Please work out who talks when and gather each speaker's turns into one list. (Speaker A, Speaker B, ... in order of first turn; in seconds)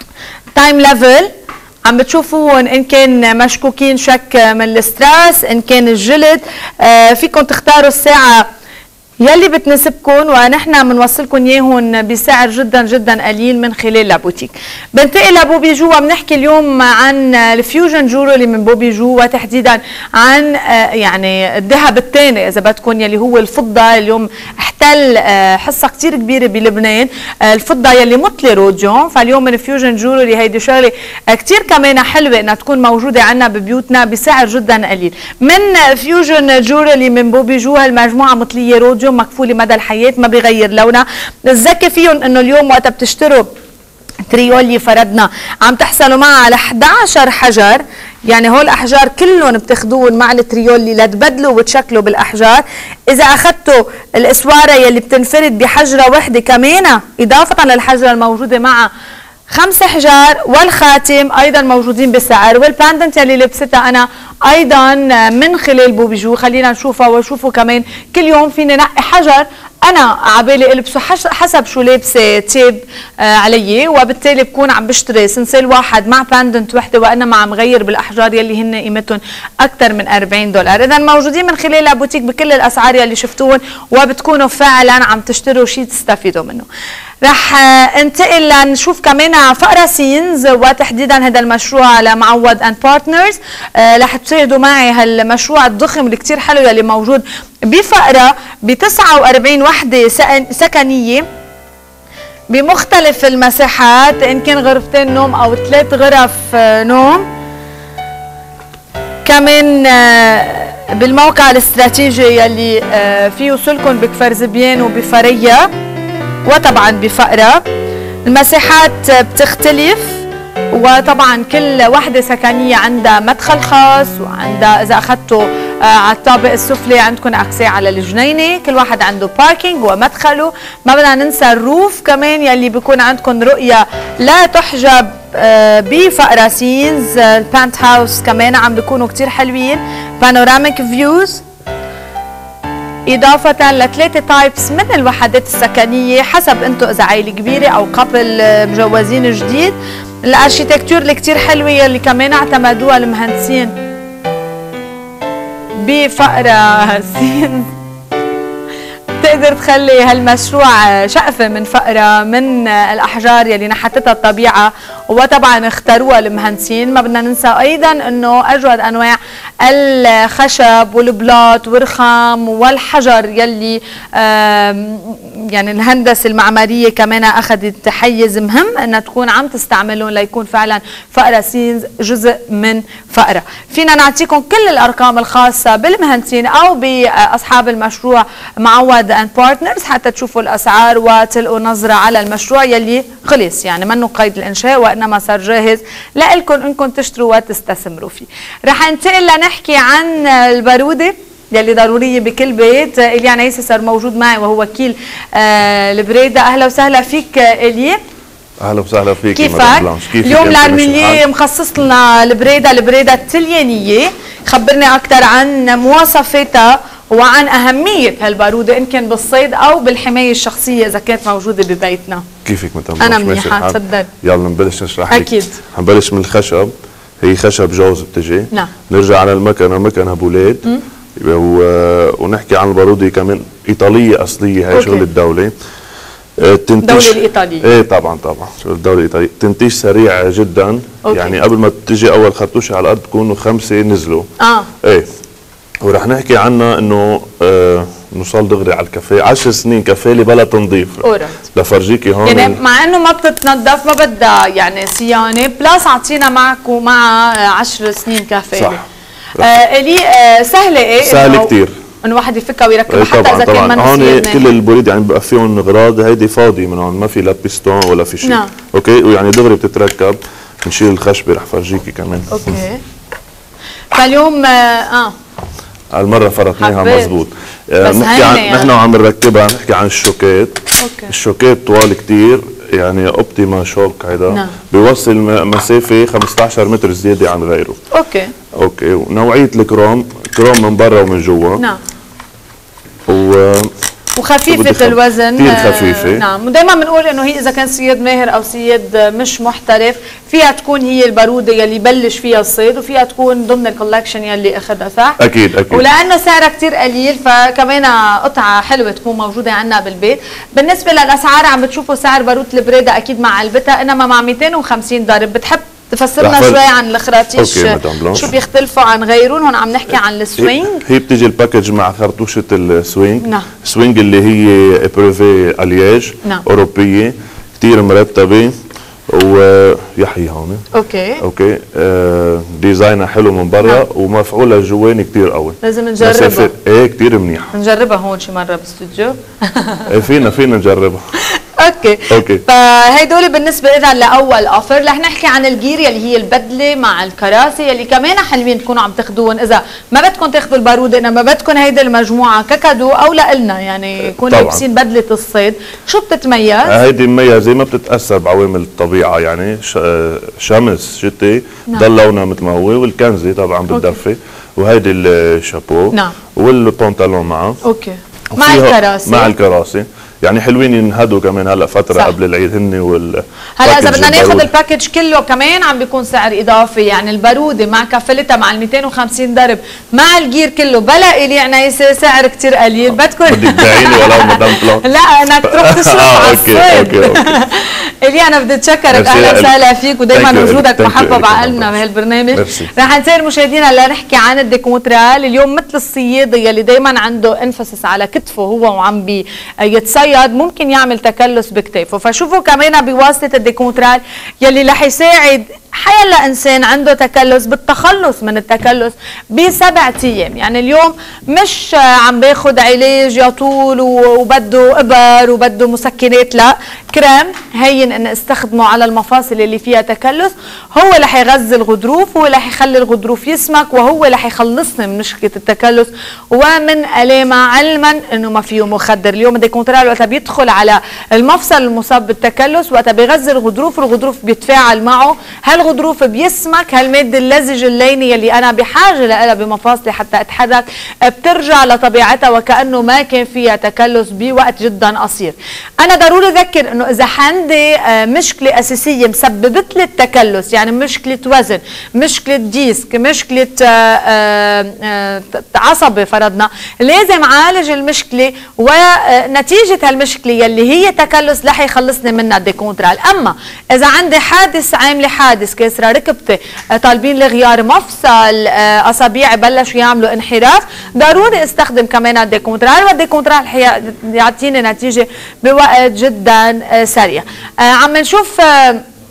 Speaker A: 0.5-1.3, 1.9-8.5, 9.2-43.5, 44.3-58.9, 59.5-86.7, 87.2-101.2, 102.5-107.3, 109.2-115.7, 116.5-117.7, 118.3-141.4, 143.1-153.7, 155.8-157.7, 159.2-208.0, 209.3-222.2, 223.0-224.1, 225.1-225.6, 234.7-235.1, 236.8-237.7, 241.1-241.4, 244.4-244.7, 251.0-251.4, 252.2-258.8, 259.4-261.5, 262.0-264.4, 268.2-268.5, 272.3-272.8, 273.9-275.1, 276.6-277.1, 277.8-278.7, 280.8-281.1, 287.9-288.3, 294.2-305.2, 305.7-320.8, 330.7-331.2, 335.6-336.5, 337.5-339.9, 341.4-356.8, 363.7-364.0, 367.6-369.3, 373.6-478.8
Speaker B: 208.6-211.2, 222.4-230.6, 231.2-235.5, 236.4-244.3, 245.8-252.6, 258.6-258.8, 261.0-261.7, 262.9-272.6, 275.9-287.8, 288.6-291.6, 293.1-293.7, 294.5-296.2, 305.2-305.8, 316.2-316.6, 317.4-318.3, 320.4-328.5, 329.1-330.6, 331.2-337.5, 339.9-341.0, 342.1-342.4, 354.3-354.6, 356.7-367.6, 368.3-374.5, 383.3-384.9, 385.5-387.4, 388.9-389.5, 390.1-391.8, 392.3-392.7